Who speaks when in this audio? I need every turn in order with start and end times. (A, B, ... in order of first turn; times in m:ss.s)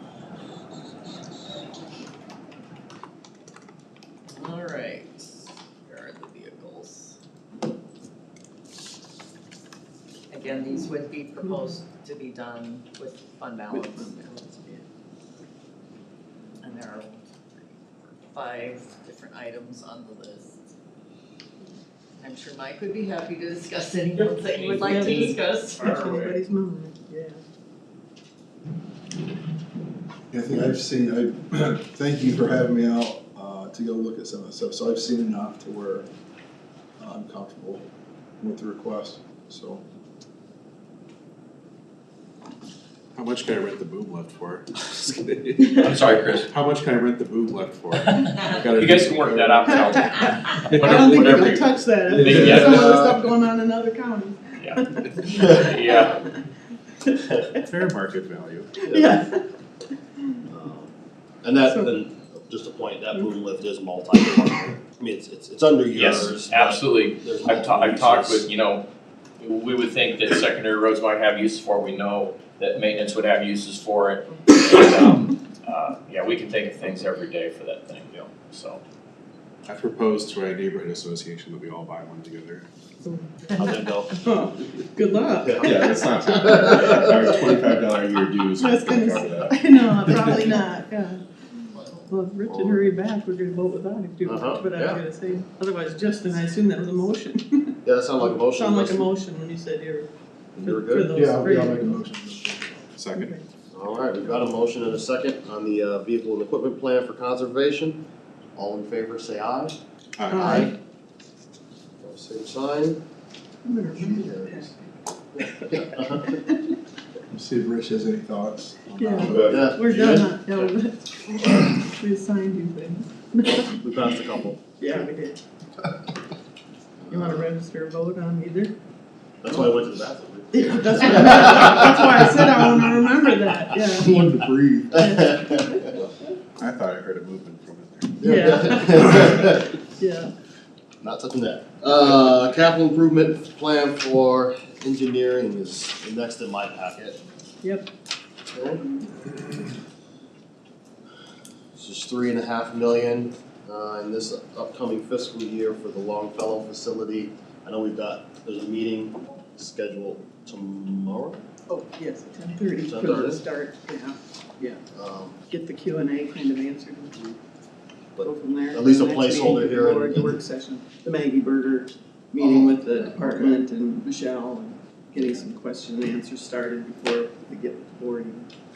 0:04.3-0:07.2 A
0:10.3-0:14.5 A
0:11.4-0:11.8 B
0:13.7-0:14.8 B
0:16.6-0:20.6 A
0:22.2-0:26.3 A
0:24.2-0:26.4 C
0:24.8-0:25.3 B
0:25.8-0:27.4 B
0:30.3-0:36.1 D
0:37.0-0:37.8 D
0:38.4-0:39.8 D
0:43.2-0:45.8 E
0:45.6-0:45.9 B
0:45.8-0:46.5 C
0:46.5-0:49.8 E
0:47.9-0:53.1 C
0:49.6-0:56.4 B
0:50.7-0:51.0 E
0:52.8-0:53.1 F
0:54.6-0:56.2 C
0:55.4-0:56.1 F
0:57.7-0:58.7 E
0:58.8-0:59.4 B
0:58.9-0:59.2 F
1:00.5-1:08.5 F
1:05.9-1:08.9 C
1:09.4-1:18.8 C
1:19.7-1:22.7 E
1:23.0-1:27.0 B
1:23.6-1:24.1 F
1:25.4-1:27.6 F
1:25.6-1:30.4 E
1:28.6-1:31.2 B
1:31.8-1:32.8 F
1:32.1-1:40.1 B
1:34.2-1:35.0 F
1:37.8-1:39.1 F
1:40.6-1:41.1 F
1:40.6-1:42.0 B
1:41.1-1:42.9 D
1:43.0-1:43.4 E
1:43.2-1:43.4 B
1:43.7-1:48.0 F
1:48.6-1:49.8 F
1:50.2-1:50.6 E
1:50.3-1:50.7 B
1:50.4-1:50.7 F
1:52.0-1:53.0 F
1:53.6-1:54.8 B
1:53.9-1:54.7 F
1:55.3-1:56.4 F
1:55.4-1:56.8 B
1:57.3-1:59.8 D
1:59.0-2:04.2 B
1:59.3-2:00.7 F
2:03.7-2:05.1 F
2:04.8-2:05.4 B
2:07.0-2:07.6 F
2:07.1-2:08.7 B
2:09.4-2:12.9 F
2:10.5-2:14.2 B
2:14.0-2:15.0 D
2:14.9-2:15.9 F
2:14.9-2:16.3 B
2:16.6-2:18.3 E
2:18.2-2:19.7 F
2:18.2-2:18.8 B
2:18.8-2:19.6 E
2:20.0-2:20.3 B
2:21.0-2:27.2 F
2:27.6-2:27.9 B
2:28.5-2:28.8 F
2:31.8-2:41.5 F
2:41.7-2:44.8 B
2:42.8-2:43.5 F
2:44.9-2:45.4 F
2:45.5-2:47.3 B
2:48.2-2:50.4 F
2:48.2-2:58.5 B
2:52.4-2:53.6 F